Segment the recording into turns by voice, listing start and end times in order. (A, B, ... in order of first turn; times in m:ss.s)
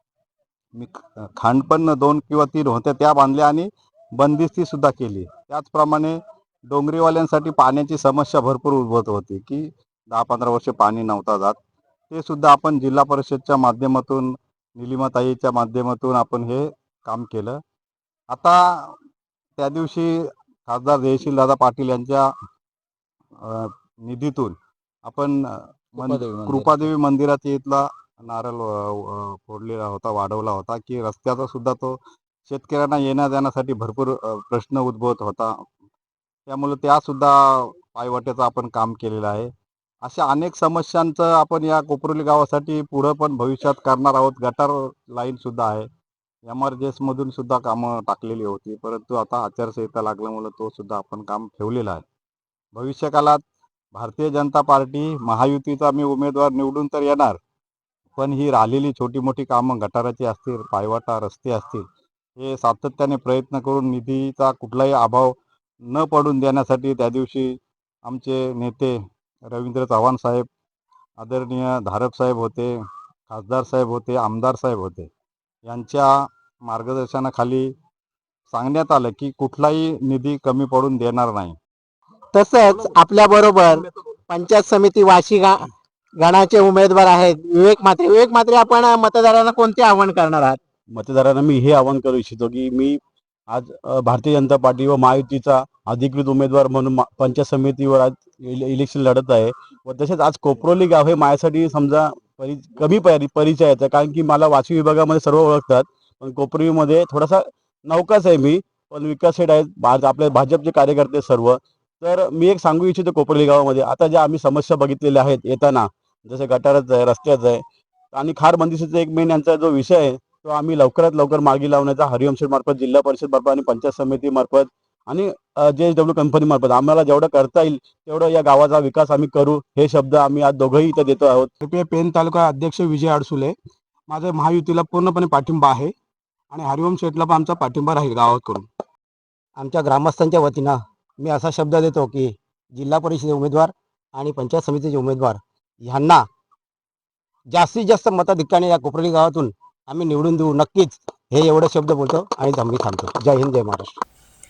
0:00.8-0:11.6 A
0:12.1-0:17.6 A
0:18.3-0:19.0 A
0:19.6-0:22.3 A
0:23.4-0:35.5 A
0:26.0-0:26.9 B
0:36.5-0:39.5 A
0:40.0-0:45.9 A
0:46.5-0:52.0 A
0:52.8-0:53.4 A
0:53.9-0:57.4 A
0:58.2-1:01.8 A
1:02.4-1:09.0 A
1:09.5-1:10.5 A
1:11.2-1:12.7 A
1:13.3-1:15.1 A
1:15.7-1:16.1 A
1:16.6-1:17.7 A
1:18.5-1:21.6 A
1:22.3-1:25.6 C
1:26.2-1:30.6 C
1:31.0-1:33.0 B
1:33.5-1:57.6 B
1:58.1-2:11.5 B
2:11.6-2:13.6 D
2:14.1-2:15.9 D
2:16.5-2:18.7 D
2:19.6-2:26.2 E
2:27.5-2:33.9 E